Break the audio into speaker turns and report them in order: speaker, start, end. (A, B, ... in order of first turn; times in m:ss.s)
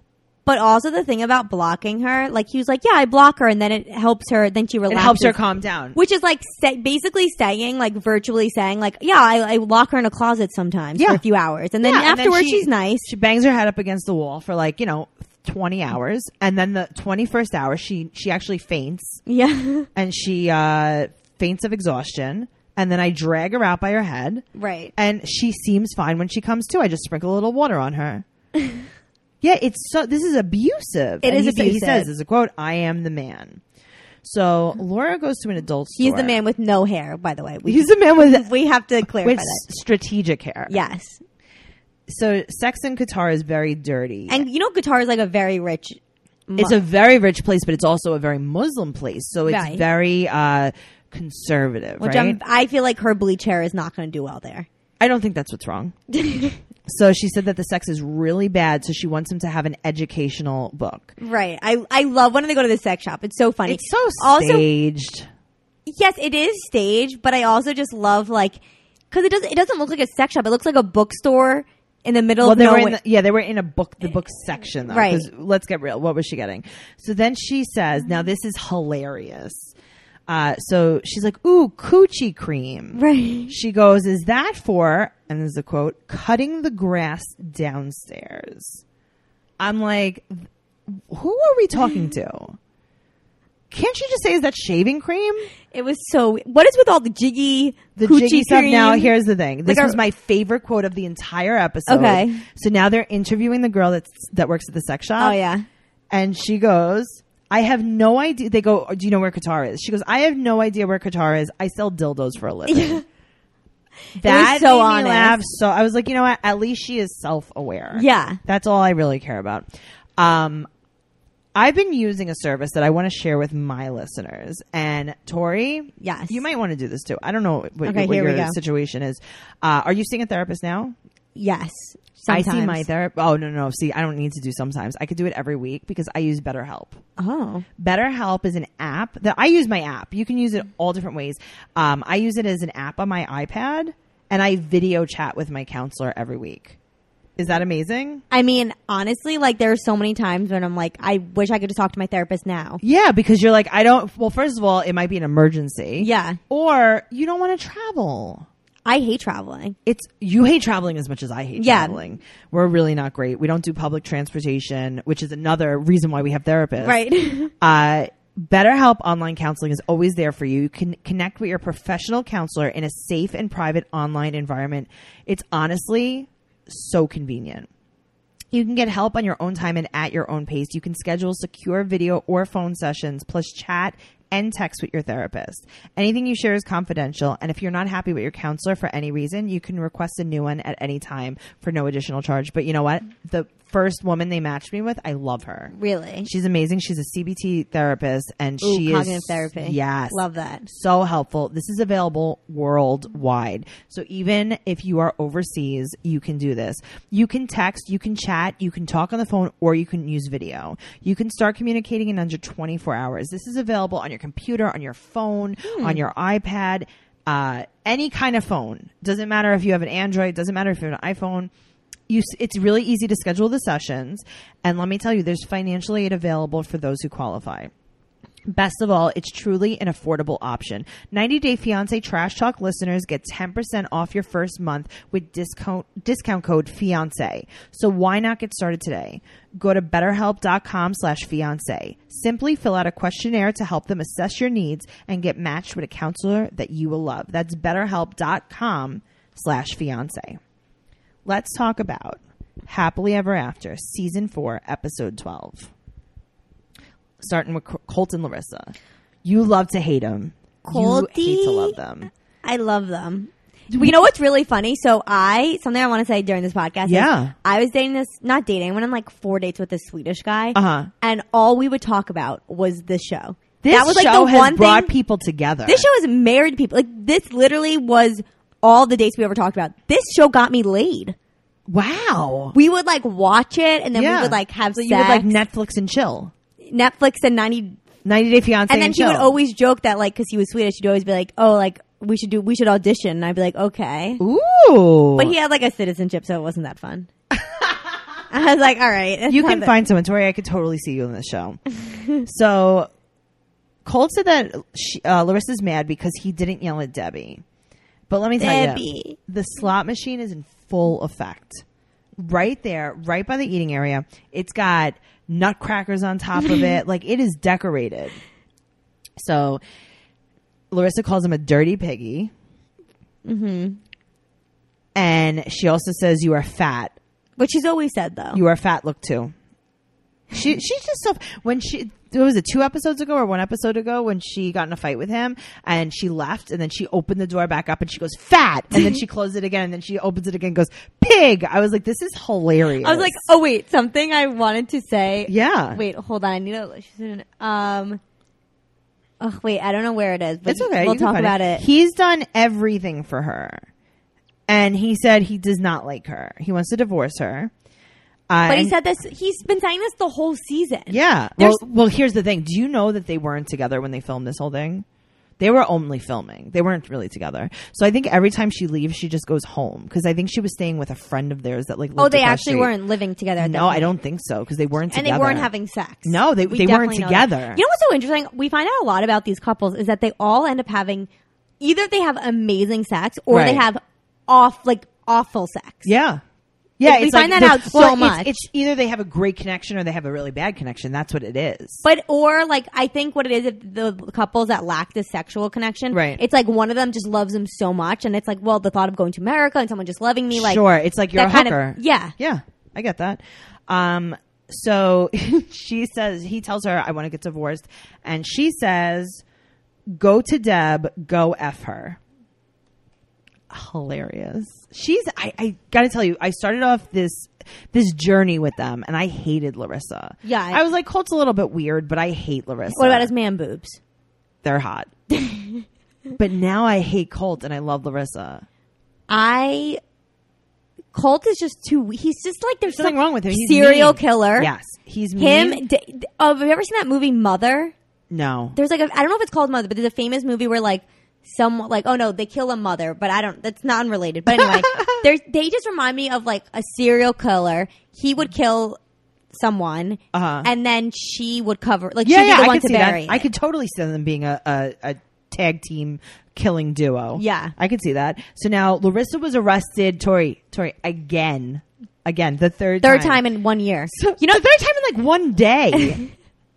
0:00.4-0:05.4 A
0:04.9-0:06.0 B
0:05.9-0:13.1 A
0:11.0-0:11.2 B
0:11.8-0:19.2 B
0:19.2-0:19.9 A
0:19.9-0:24.4 B
0:24.5-0:24.9 A
0:25.0-0:28.2 B
0:28.5-0:28.9 A
0:29.4-0:33.6 B
0:31.2-0:32.1 A
0:34.2-0:36.4 B
0:36.0-0:39.6 A
0:37.6-0:38.5 B
0:39.0-0:40.8 B
0:40.7-0:41.2 A
0:42.1-0:44.4 B
0:44.3-0:46.8 A
0:46.6-0:52.4 B
0:49.5-0:49.8 A
0:52.0-0:54.7 A
0:55.0-0:56.0 B
0:56.1-0:56.6 A
0:56.8-1:01.1 B
1:01.2-1:04.6 A
1:03.6-1:05.2 B
1:05.8-1:08.6 A
1:09.1-1:13.0 A
1:12.4-1:19.7 B
1:14.9-1:15.3 A
1:20.3-1:28.8 B
1:22.9-1:23.5 A
1:29.6-1:32.6 B
1:33.7-1:35.5 B
1:35.7-1:40.0 A
1:38.0-1:45.4 B
1:41.9-1:42.4 A
1:45.2-1:45.6 A
1:46.1-1:53.0 B
1:52.7-1:53.0 A
1:54.2-1:59.6 B
1:54.2-1:55.4 A
1:57.9-1:58.4 A
2:00.2-2:00.7 B
2:01.5-2:10.9 B
2:06.0-2:06.4 A
2:07.8-2:08.5 A
2:11.3-2:12.9 A
2:12.3-2:17.0 B
2:17.2-2:17.6 A
2:17.8-2:26.8 B
2:27.4-2:28.2 B
2:28.3-2:32.8 A
2:32.8-2:38.5 B
2:36.0-2:36.4 A
2:38.8-2:39.8 A
2:39.8-2:47.0 B
2:41.6-2:42.0 A
2:46.8-2:47.5 A
2:47.6-2:57.7 B
2:58.5-3:15.7 B
3:15.7-3:16.3 A
3:16.2-3:41.5 B
3:18.6-3:20.6 A
3:35.7-3:36.0 A
3:42.1-3:47.7 B
3:48.5-4:10.4 B
4:11.2-4:15.7 B
4:17.2-4:22.1 B
4:20.6-4:21.8 A
4:22.4-4:34.9 A
4:23.7-4:24.0 B
4:26.8-4:27.3 B
4:30.5-4:30.9 B
4:33.6-4:35.8 B
4:35.6-4:41.1 A
4:41.7-4:42.5 B
4:42.5-4:45.3 A
4:43.9-4:46.3 B
4:46.6-4:47.8 A
4:48.0-4:49.3 B
4:48.7-4:54.2 A
4:54.2-4:55.3 B
4:55.2-4:57.1 A
4:58.3-4:59.7 A
4:59.3-5:01.6 B
5:02.2-5:02.9 B
5:03.8-5:07.4 B
5:08.1-5:11.6 B
5:08.4-5:09.2 A
5:12.2-5:18.2 B
5:19.2-5:19.6 B
5:20.7-5:22.3 B
5:23.2-5:23.8 A
5:24.9-5:27.0 B
5:27.4-5:28.4 A
5:28.3-5:29.3 B
5:30.3-5:43.3 B
5:42.8-5:48.0 A
5:45.3-5:45.8 B
5:49.2-5:51.6 A
5:50.5-5:53.6 B
5:54.5-5:57.5 B
5:58.3-5:58.7 B
5:58.5-6:01.6 A
6:00.9-6:04.8 B
6:05.4-6:12.7 B
6:12.0-6:13.9 A
6:13.4-6:15.5 B
6:14.9-6:21.1 A
6:16.0-6:17.6 B
6:21.6-6:25.9 A
6:23.3-6:23.6 B
6:25.8-6:26.2 B
6:26.8-6:31.8 B
6:26.8-6:28.3 A
6:31.8-6:40.6 A
6:35.9-6:36.2 B
6:40.3-6:49.2 B
6:41.1-6:42.1 A
6:49.9-6:52.0 B
6:53.5-7:03.1 B
7:00.2-7:00.6 A
7:02.7-7:03.8 A
7:04.4-7:04.9 B
7:05.1-7:05.6 A
7:06.2-7:08.4 B
7:09.1-7:09.8 A
7:10.9-7:14.5 A
7:12.7-7:15.6 B
7:15.2-7:17.7 A
7:18.1-7:18.6 B
7:18.6-7:28.8 A
7:24.3-7:25.0 B
7:29.3-7:33.3 A
7:30.1-7:30.5 B
7:32.0-7:43.2 B
7:37.2-7:37.5 A
7:42.8-7:44.4 A
7:43.9-7:46.0 B